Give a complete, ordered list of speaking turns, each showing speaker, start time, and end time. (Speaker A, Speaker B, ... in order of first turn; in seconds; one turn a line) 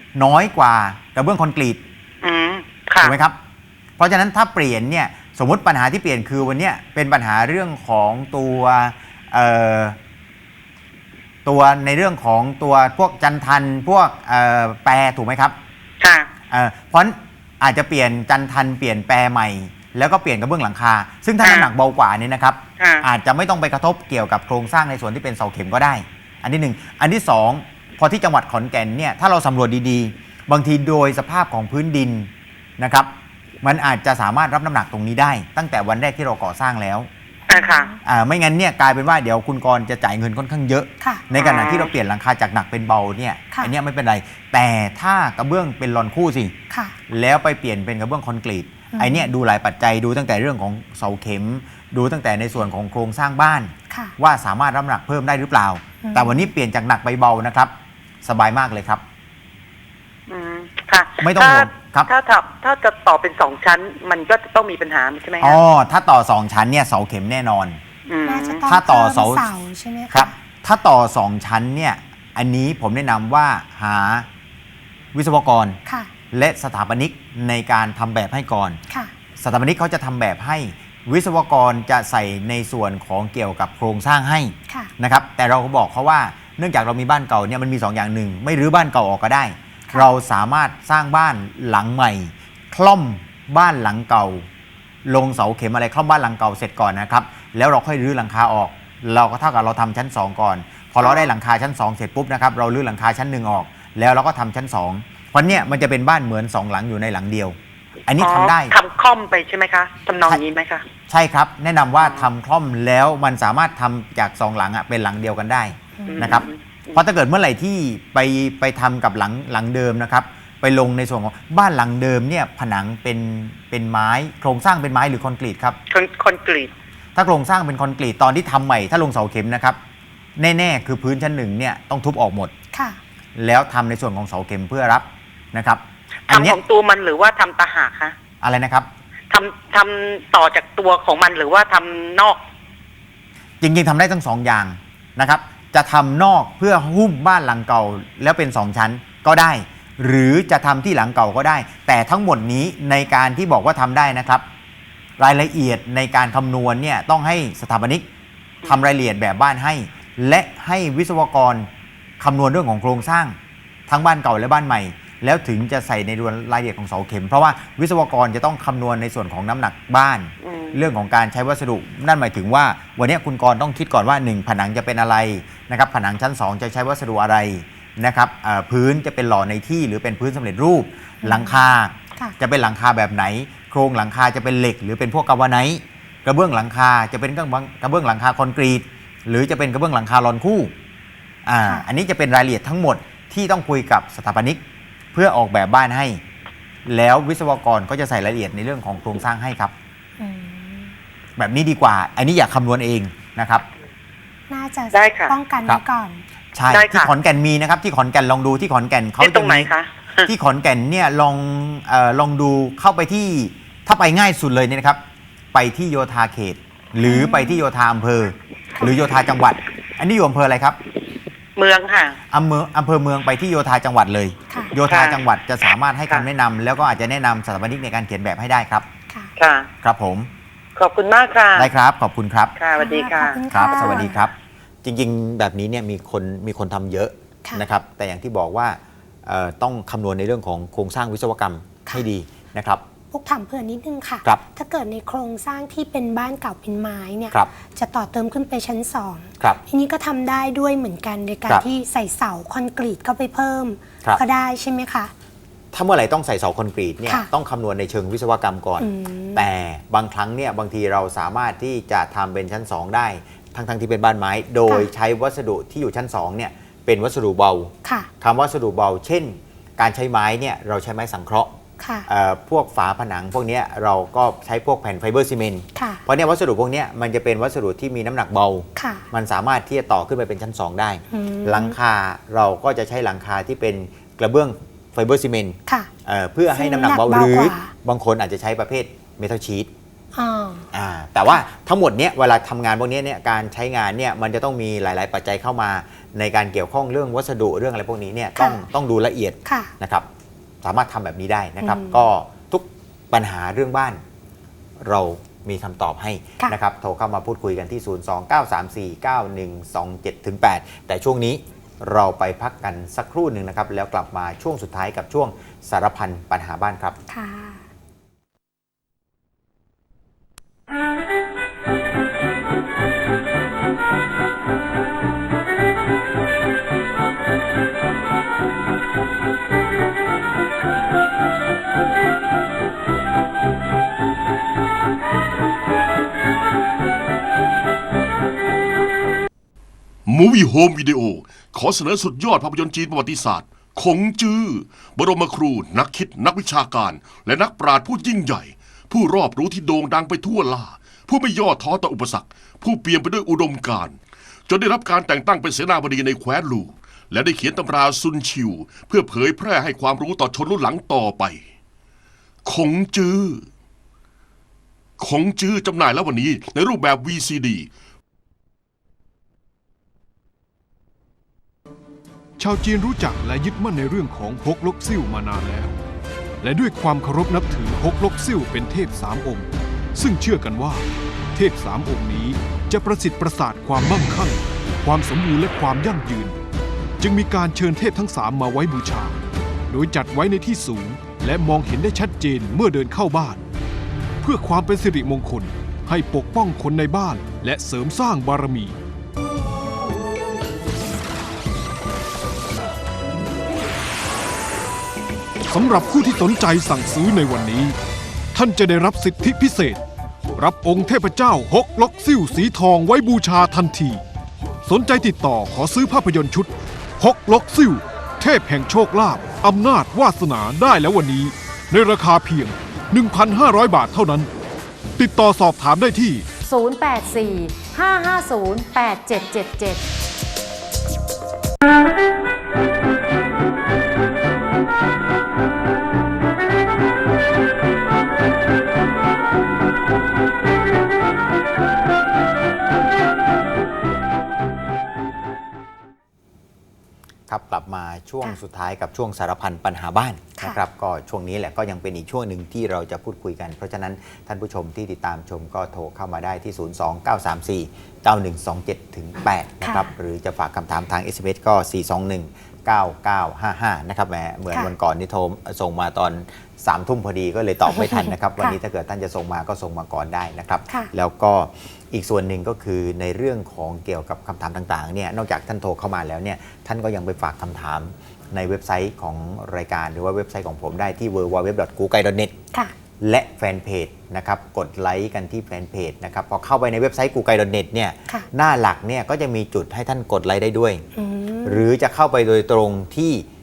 Speaker A: 0.1-1.8
Speaker B: 2.2-3.1
Speaker A: 3.0-3.4
Speaker A: 4.0-10.0
Speaker A: 11.4-15.6
Speaker B: 16.0-16.3
Speaker A: 16.5-33.1
Speaker A: 33.6-37.1
Speaker B: 37.5-37.9
Speaker C: 37.5-37.9
Speaker A: 38.0-46.5
Speaker C: 41.0-41.3
Speaker B: 41.4-41.9
Speaker C: 46.7-47.0
Speaker A: 47.1-57.7
Speaker C: 48.9-49.3
Speaker C: 53.9-54.1
Speaker C: 56.0-56.5
Speaker A: 58.2-59.0
Speaker B: 60.3-65.6
Speaker A: 61.2-62.1
Speaker A: 65.4-67.8
Speaker B: 68.1-68.6
Speaker C: 68.2-70.3
Speaker A: 68.7-69.5
Speaker A: 70.1-74.3
Speaker A: 75.1-75.8
Speaker A: 76.3-78.8
Speaker A: 79.4-94.5
Speaker A: 95.1-108.8
Speaker B: 108.2-110.8
Speaker A: 111.1-125.8
Speaker C: 116.0-116.4
Speaker B: 116.1-117.0
Speaker B: 125.9-126.7
Speaker A: 127.2-129.8
Speaker A: 130.4-132.5
Speaker C: 132.7-133.0
Speaker A: 133.4-136.6
Speaker B: 136.3-138.2
Speaker A: 138.4-138.9
Speaker B: 139.3-142.4
Speaker A: 143.6-154.4
Speaker A: 155.2-158.1
Speaker A: 158.7-161.7
Speaker A: 162.2-163.4
Speaker A: 163.9-190.7
Speaker B: 170.4-170.7
Speaker C: 181.2-181.6
Speaker A: 191.5-194.6
Speaker A: 195.1-196.2
Speaker A: 196.9-199.7
Speaker C: 200.2-200.9
Speaker A: 201.4-203.7
Speaker C: 204.5-206.2
Speaker B: 204.9-205.3
Speaker A: 206.6-209.7
Speaker B: 206.7-207.1
Speaker B: 209.2-210.3
Speaker A: 210.3-215.0
Speaker A: 215.5-220.8
Speaker C: 217.1-217.6
Speaker B: 221.6-222.2
Speaker A: 222.3-228.9
Speaker C: 224.5-224.7
Speaker B: 224.9-225.2
Speaker B: 229.4-229.7
Speaker A: 229.8-230.3
Speaker B: 230.8-231.7
Speaker A: 231.6-232.6
Speaker B: 232.6-233.4
Speaker C: 232.8-234.2
Speaker A: 233.5-234.3
Speaker A: 234.8-242.8
Speaker C: 243.1-255.1
Speaker A: 255.7-271.5
Speaker C: 258.8-259.4
Speaker C: 271.8-272.1
Speaker A: 272.1-289.7
Speaker C: 275.8-276.0
Speaker C: 278.8-279.1
Speaker C: 281.1-281.8
Speaker C: 286.5-287.7
Speaker C: 290.1-290.7
Speaker A: 290.7-300.1
Speaker C: 298.4-298.6
Speaker C: 299.4-299.7
Speaker A: 300.6-304.0
Speaker C: 301.6-302.0
Speaker A: 304.8-317.0
Speaker C: 317.1-317.6
Speaker D: 340.1-361.4
Speaker D: 362.5-363.5
Speaker D: 365.0-367.7
Speaker E: 372.4-375.8
Speaker E: 376.4-386.4
Speaker E: 387.0-389.2
Speaker E: 389.7-393.4
Speaker E: 394.2-398.8
Speaker E: 405.5-407.8
Speaker E: 408.3-409.8
Speaker E: 410.4-414.0
Speaker E: 414.7-424.3
Speaker E: 425.0-426.4
Speaker F: 426.5-429.8
Speaker A: 447.3-482.3
Speaker C: 459.6-459.9
Speaker C: 467.7-468.6
Speaker A: 483.0-490.8
Speaker C: 491.0-491.6
Speaker A: 491.4-493.3